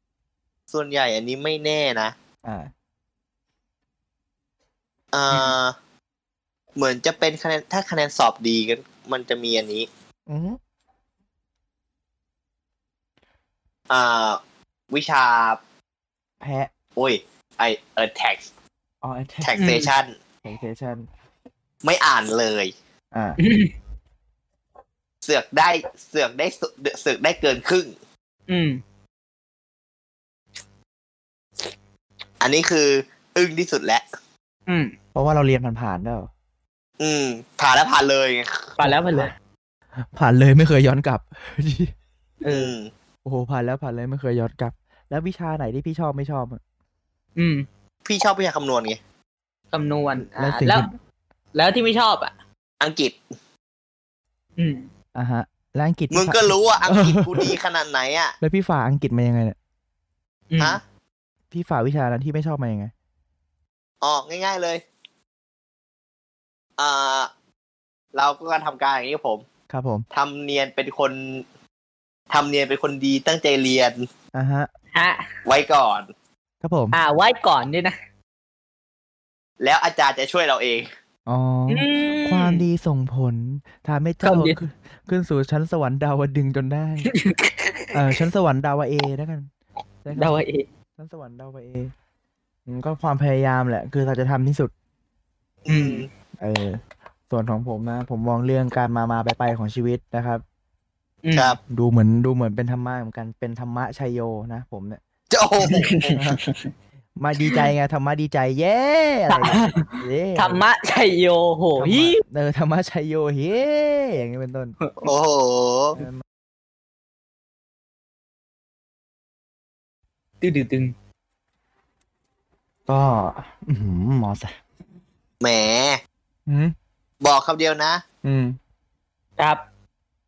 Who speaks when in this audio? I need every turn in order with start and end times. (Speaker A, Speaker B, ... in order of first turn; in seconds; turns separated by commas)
Speaker A: 0.7-2.1, Speaker B: 2.4-2.7, Speaker A: 5.1-5.7, Speaker A: 6.8-9.9, Speaker B: 10.3-10.6, Speaker A: 13.9-14.4, Speaker A: 14.9-15.6, Speaker B: 16.4-16.7, Speaker A: 16.9-18.5, Speaker B: 19.0-19.6, Speaker A: 19.4-20.1, Speaker C: 19.6-19.9, Speaker B: 20.4-21.1, Speaker A: 21.8-22.7, Speaker B: 23.1-23.4, Speaker C: 23.4-23.7, Speaker A: 25.2-27.9, Speaker C: 28.5-28.8, Speaker A: 32.4-34.0, Speaker C: 34.7-34.9, Speaker B: 35.1-36.3, Speaker A: 37.0-38.8, Speaker C: 38.8-39.3, Speaker B: 38.8-39.3, Speaker B: 40.1-41.9, Speaker C: 42.4-42.7, Speaker A: 42.5-42.9, Speaker B: 43.2-46.6, Speaker C: 47.4-47.6, Speaker A: 48.0-49.0, Speaker C: 49.7-50.9, Speaker B: 50.3-50.9, Speaker C: 51.5-52.3, Speaker A: 52.8-53.2, Speaker C: 54.6-54.9, Speaker B: 55.1-57.5, Speaker A: 56.1-58.4, Speaker B: 58.4-59.6, Speaker C: 60.5-60.8, Speaker B: 61.5-62.9, Speaker A: 64.0-64.8, Speaker A: 66.8-67.3, Speaker A: 68.1-69.4, Speaker B: 69.7-70.0, Speaker A: 70.1-71.4, Speaker A: 72.3-74.1, Speaker B: 74.3-74.7, Speaker C: 74.9-75.3, Speaker A: 75.4-76.1, Speaker B: 76.6-77.0, Speaker C: 76.9-78.0, Speaker A: 79.6-80.9, Speaker B: 81.3-87.1, Speaker C: 81.7-82.6, Speaker C: 84.2-84.6, Speaker C: 87.1-87.7, Speaker B: 87.9-89.5, Speaker B: 90.0-90.4, Speaker C: 90.1-90.7, Speaker B: 91.0-91.9, Speaker B: 92.7-94.7, Speaker A: 95.7-96.1, Speaker C: 95.7-96.0, Speaker B: 96.4-100.4, Speaker C: 101.2-101.6, Speaker B: 101.7-105.0, Speaker A: 105.3-106.2, Speaker C: 105.8-106.6, Speaker B: 107.2-110.6, Speaker C: 109.3-112.2, Speaker B: 111.8-114.8, Speaker A: 115.0-116.0, Speaker B: 116.0-116.2, Speaker C: 120.4-120.9, Speaker B: 122.9-124.5, Speaker A: 125.4-126.0, Speaker B: 126.5-126.7, Speaker A: 127.2-128.0, Speaker B: 128.2-128.6